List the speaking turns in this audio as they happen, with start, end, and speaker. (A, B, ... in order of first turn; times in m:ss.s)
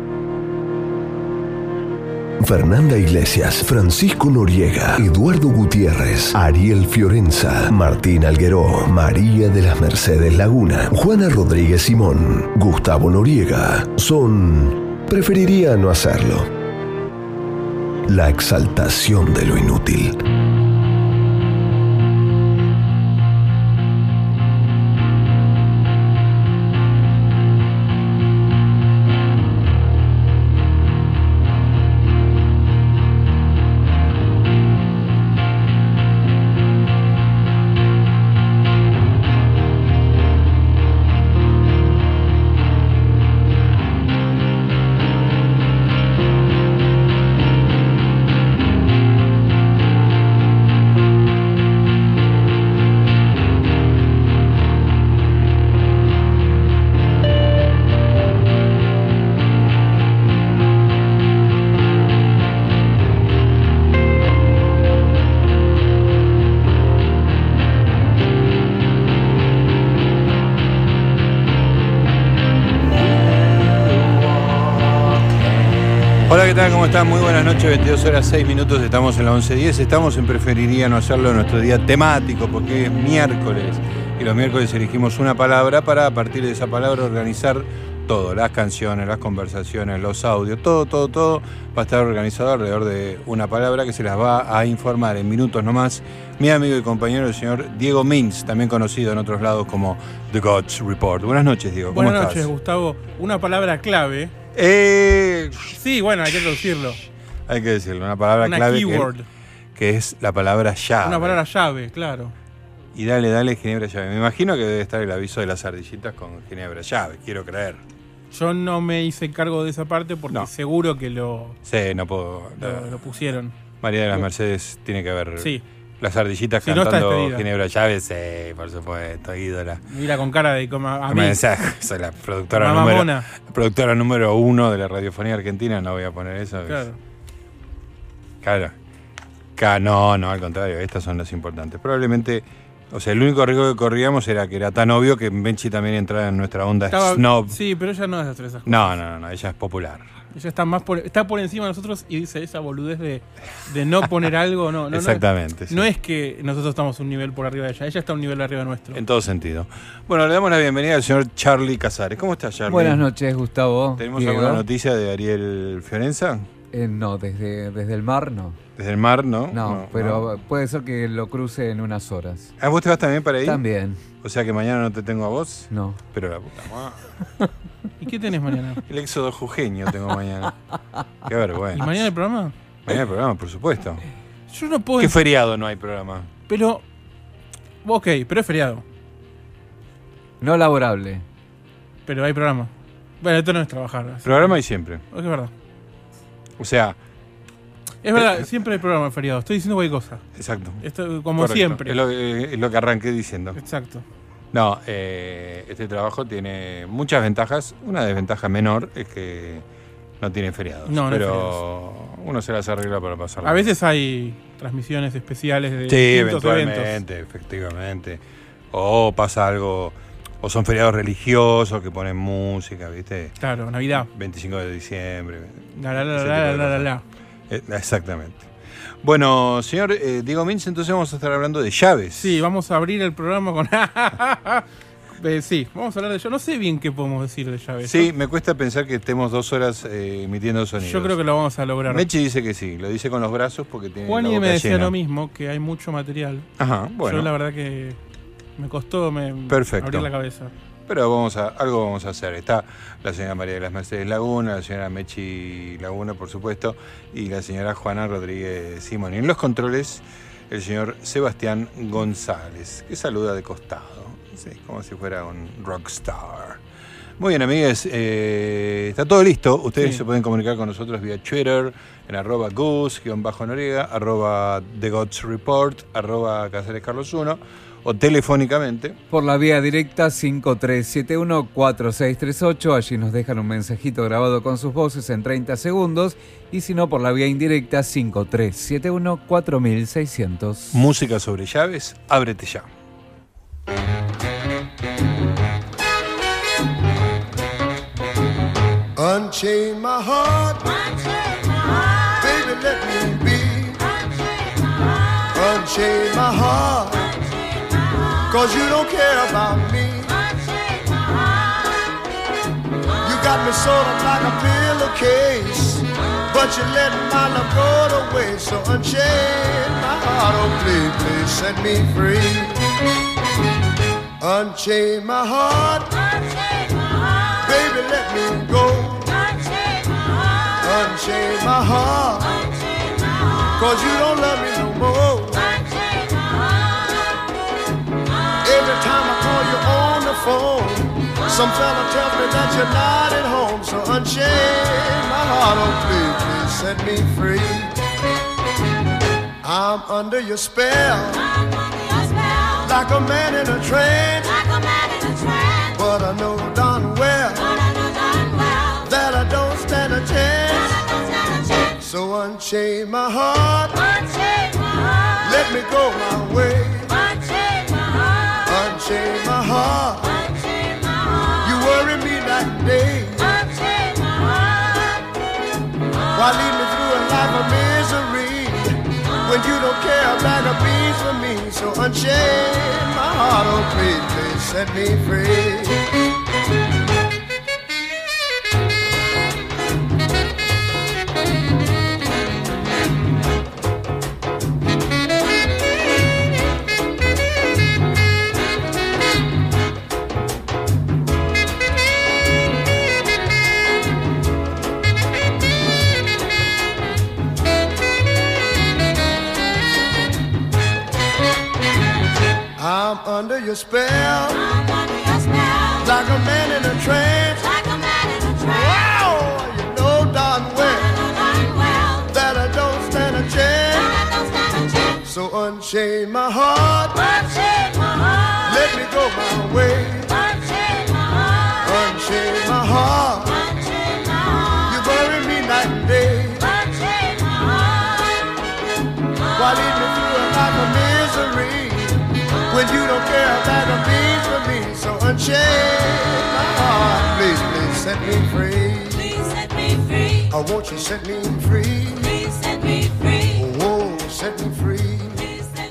0:02.4-0:16.5 A
0:18.1-0:20.2 A
1:16.2-1:42.5 B
1:41.9-1:44.3 C
1:44.5-1:45.7 B
1:45.7-1:47.0 C
1:47.5-1:49.1 B
1:48.4-1:49.2 C
1:49.7-1:51.4 B
1:51.0-1:52.3 C
1:52.9-1:57.8 B
1:58.3-2:01.6 C
2:01.6-2:03.0 B
2:02.6-2:03.5 C
2:03.8-2:09.8 B
2:06.6-2:07.4 C
2:09.9-2:11.4 C
2:11.1-2:16.9 B
2:12.5-2:13.3 C
2:16.7-2:17.0 C
2:18.4-2:18.7 B
2:19.6-2:27.6 B
2:26.9-2:28.9 C
2:28.6-2:30.1 B
2:30.3-2:39.0 C
2:34.9-2:35.8 B
2:38.9-2:43.0 B
2:42.7-2:44.6 D
2:44.0-2:46.5 B
2:46.7-2:48.6 D
2:48.8-2:50.3 B
2:49.5-2:52.5 D
2:52.6-2:53.6 B
2:53.4-2:54.0 D
2:54.2-2:57.0 B
2:55.7-2:56.0 D
2:58.0-2:58.8 C
2:58.9-3:00.5 B
3:01.2-3:01.9 B
3:01.8-3:02.5 C
3:02.8-3:04.0 B
3:04.5-3:05.2 C
3:05.0-3:06.3 B
3:06.5-3:06.8 C
3:07.8-3:08.8 C
3:10.4-3:11.2 D
3:12.0-3:14.6 C
3:14.2-3:15.0 B
3:15.1-3:15.5 C
3:16.6-3:17.0 B
3:18.0-3:20.2 C
3:20.3-3:20.8 B
3:20.8-3:22.0 C
3:21.4-3:23.6 B
3:23.6-3:24.0 C
3:24.5-3:29.6 B
3:30.2-3:33.7 B
3:30.8-3:31.6 C
3:33.4-3:37.0 C
3:35.9-3:43.4 B
3:43.4-3:44.1 C
3:44.0-3:46.9 B
3:45.8-3:47.0 C
3:47.5-3:48.5 B
3:49.0-3:52.4 B
3:52.2-3:58.1 C
3:57.8-4:01.2 B
4:00.8-4:02.0 C
4:01.9-4:04.9 B
4:04.1-4:06.5 C
4:06.6-4:07.3 B
4:07.0-4:08.0 C
4:08.6-4:10.5 C
4:09.5-4:10.1 B
4:10.9-4:26.6 B
4:27.2-4:39.0 B
4:39.1-4:50.8 D
4:50.7-4:52.7 B
4:59.0-5:00.8 E
5:02.2-5:03.8 E
5:05.3-5:07.2 E
5:08.3-5:10.2 E
5:13.0-5:22.6 E
5:24.2-5:26.0 E
5:27.4-5:29.2 E
5:30.6-5:32.4 E
5:33.5-5:35.8 E
5:38.4-5:47.7 E
5:49.4-5:51.3 E
5:52.6-5:54.4 E
5:55.7-5:57.6 E
5:58.8-6:00.8 E
6:01.8-6:03.9 E
6:05.2-6:07.1 E
6:08.4-6:10.2 E
6:11.4-6:13.6 E
6:16.1-6:25.8 E
6:52.6-6:54.5 E
6:55.8-6:57.6 E
6:58.4-7:01.1 E
7:02.0-7:04.0 E
7:05.0-7:07.3 E
7:08.4-7:10.2 E
7:11.6-7:13.5 E
7:14.6-7:16.7 E
7:19.3-7:29.2 E
7:30.3-7:32.3 E
7:33.3-7:35.3 E